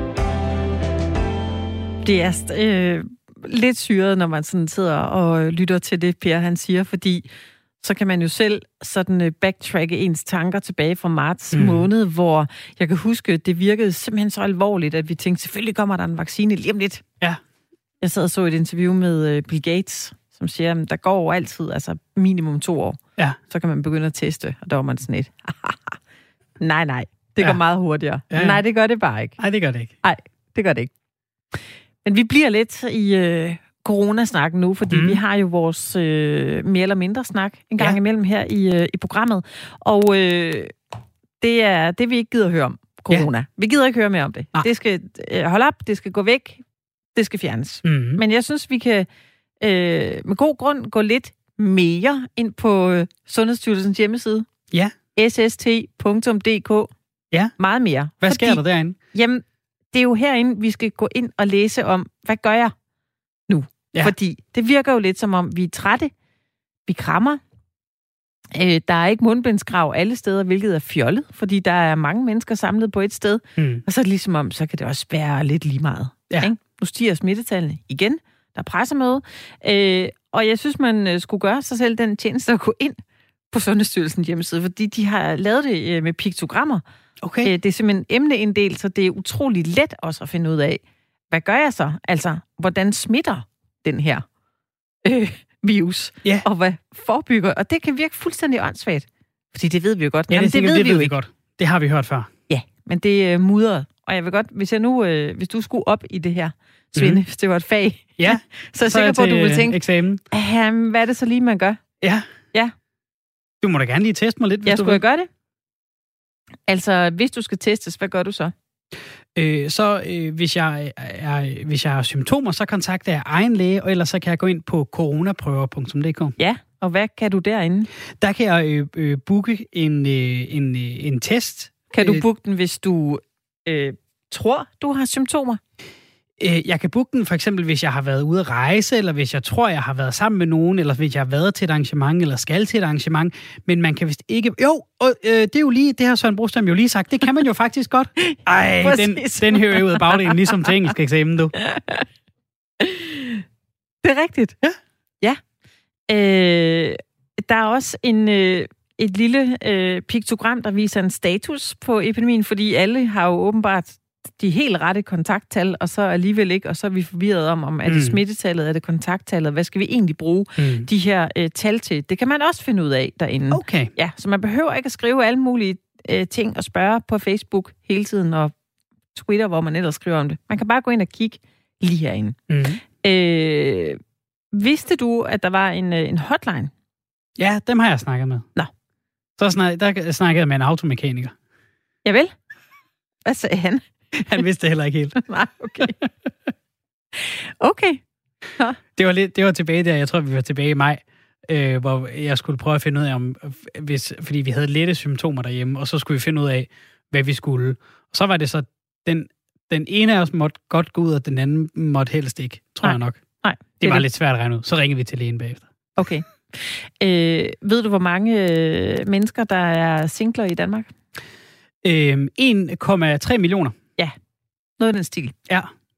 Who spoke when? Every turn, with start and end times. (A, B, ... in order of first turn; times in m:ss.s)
0:02.0-0:07.3 A
0:07.8-0:17.0 A
0:11.5-0:11.9 B
0:18.0-0:26.0 A
0:26.6-0:29.4 A
0:28.3-0:28.6 B
0:29.4-0:29.9 B
0:30.0-0:30.9 A
0:32.0-0:40.8 A
0:34.9-0:35.2 B
0:41.4-0:46.6 A
0:47.1-0:49.1 A
0:47.8-0:48.2 B
0:49.6-0:54.5 A
0:55.2-0:56.9 A
0:57.6-1:02.7 A
0:58.2-0:59.0 B
1:03.5-1:06.1 A
1:06.9-1:07.4 A
1:08.6-1:23.0 A
1:13.6-1:13.8 B
1:23.5-1:26.8 A
1:27.2-1:27.5 B
1:27.4-1:34.2 A
1:35.0-1:41.1 A
1:40.3-1:42.3 B
1:42.5-1:51.8 A
1:47.0-1:47.2 B
1:48.2-1:50.2 B
1:52.0-1:52.3 B
1:53.6-1:55.0 B
1:54.7-1:55.3 A
1:56.7-1:58.5 A
1:59.4-2:06.4 B
2:06.4-2:07.9 A
2:08.2-2:12.2 B
2:11.9-2:15.6 A
2:16.4-2:31.6 B
2:28.2-2:30.7 A
2:31.6-2:32.1 A
2:32.8-2:33.4 A
2:34.0-2:34.6 A
2:36.1-2:58.5 A
2:47.9-2:48.2 B
2:50.6-2:50.9 B
2:53.5-2:53.9 B
2:59.1-3:02.4 A
3:02.5-3:02.8 B
3:03.0-3:04.0 A
3:04.5-3:06.7 A
3:07.4-3:08.5 B
3:09.4-3:11.3 B
3:12.0-3:12.3 A
3:13.2-3:14.4 A
3:14.2-3:15.2 B
3:15.2-3:16.0 A
3:15.8-3:16.1 B
3:17.2-3:18.0 A
3:19.0-3:33.2 B
3:32.8-3:34.0 A
3:33.8-3:35.7 B
3:36.0-3:40.9 A
3:41.8-3:43.8 B
3:44.8-3:45.4 A